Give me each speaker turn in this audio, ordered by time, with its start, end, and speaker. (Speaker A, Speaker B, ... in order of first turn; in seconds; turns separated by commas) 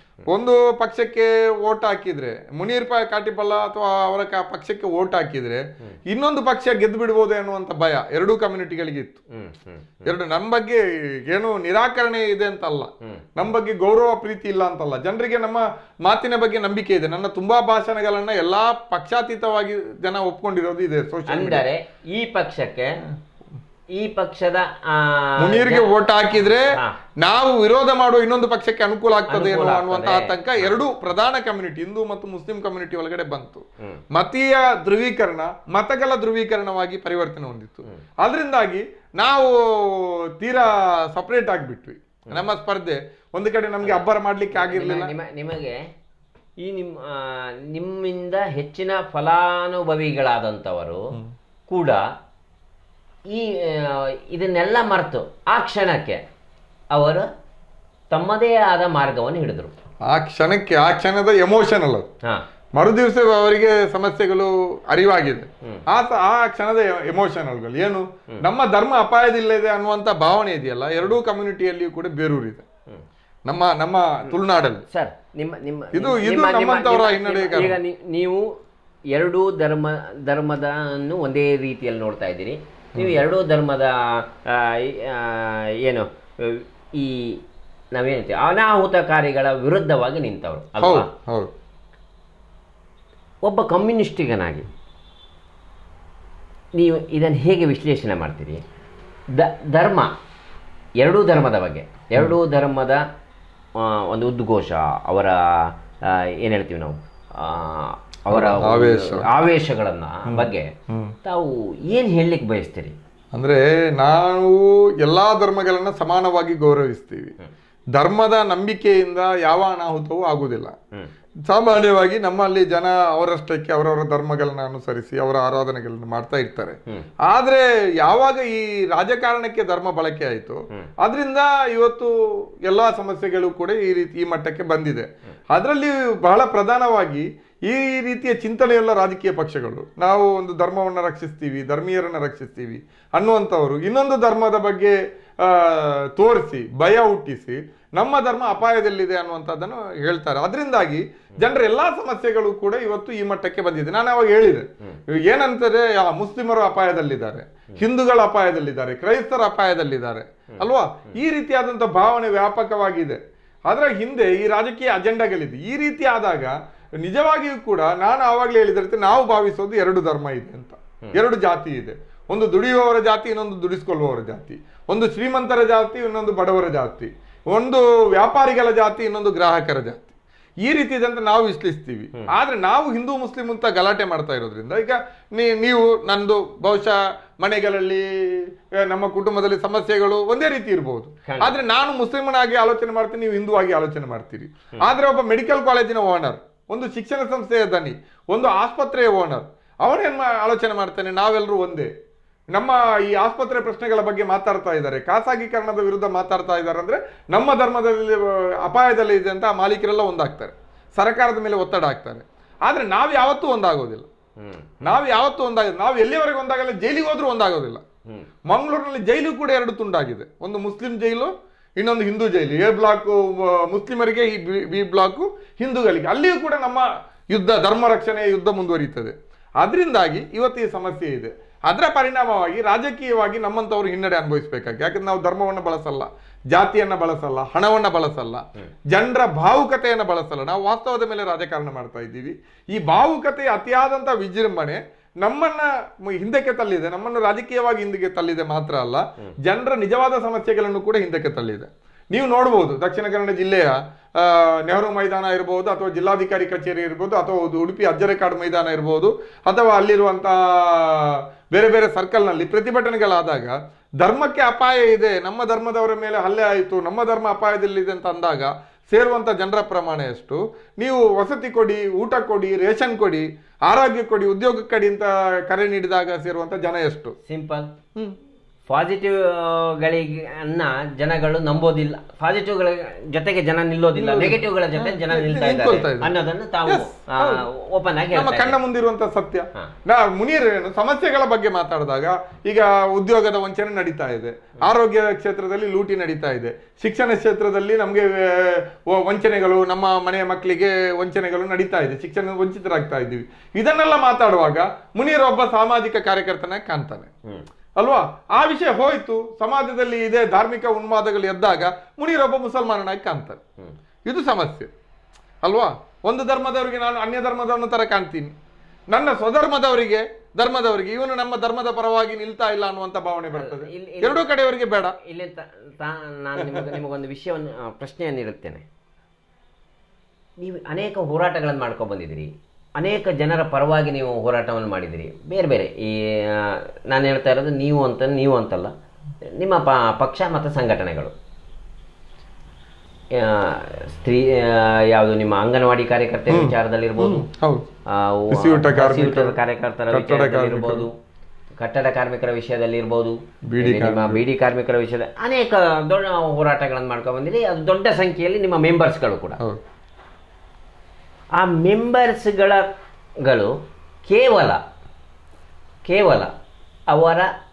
Speaker A: 0.3-9.2, Speaker B: 9.3-10.1, Speaker A: 10.1-21.7, Speaker B: 13.0-13.3, Speaker B: 21.3-23.0, Speaker B: 23.9-25.9, Speaker A: 25.4-45.1, Speaker B: 26.7-27.0, Speaker B: 29.3-30.7, Speaker B: 43.8-45.9, Speaker B: 46.6-51.1, Speaker B: 51.7-52.1, Speaker B: 53.3-56.2, Speaker B: 56.9-57.3, Speaker B: 58.1-59.8, Speaker A: 60.1-62.1, Speaker A: 62.8-72.7, Speaker A: 73.5-74.8, Speaker B: 74.9-78.6, Speaker A: 75.9-77.8, Speaker B: 79.1-87.4, Speaker B: 87.9-91.1, Speaker A: 90.8-91.5, Speaker B: 93.4-94.7, Speaker B: 96.8-98.6, Speaker B: 99.3-100.1, Speaker B: 101.0-103.1, Speaker B: 103.8-110.7, Speaker A: 108.3-109.3, Speaker A: 110.3-111.2, Speaker B: 111.2-113.0, Speaker A: 113.3-117.3, Speaker A: 117.9-120.8, Speaker A: 121.5-180.1, Speaker A: 180.6-201.9, Speaker B: 191.3-191.6, Speaker A: 202.5-214.1, Speaker B: 214.4-214.7, Speaker A: 214.8-217.8, Speaker A: 218.5-277.2, Speaker B: 277.3-277.8, Speaker B: 278.7-288.6, Speaker A: 283.9-286.1, Speaker A: 286.7-287.5, Speaker A: 288.1-307.1, Speaker A: 307.8-313.4, Speaker A: 314.1-314.7, Speaker A: 315.4-318.3, Speaker A: 318.9-325.0, Speaker B: 323.3-324.3, Speaker B: 325.0-328.6, Speaker A: 326.4-326.7, Speaker B: 330.4-338.7, Speaker B: 339.3-341.1, Speaker B: 343.1-347.3, Speaker A: 346.3-347.7, Speaker B: 347.9-350.9, Speaker A: 348.3-349.4, Speaker A: 349.9-350.9, Speaker B: 351.6-359.4, Speaker A: 353.5-354.2, Speaker B: 361.4-362.7, Speaker B: 363.2-364.6, Speaker B: 365.9-366.3, Speaker B: 366.9-367.3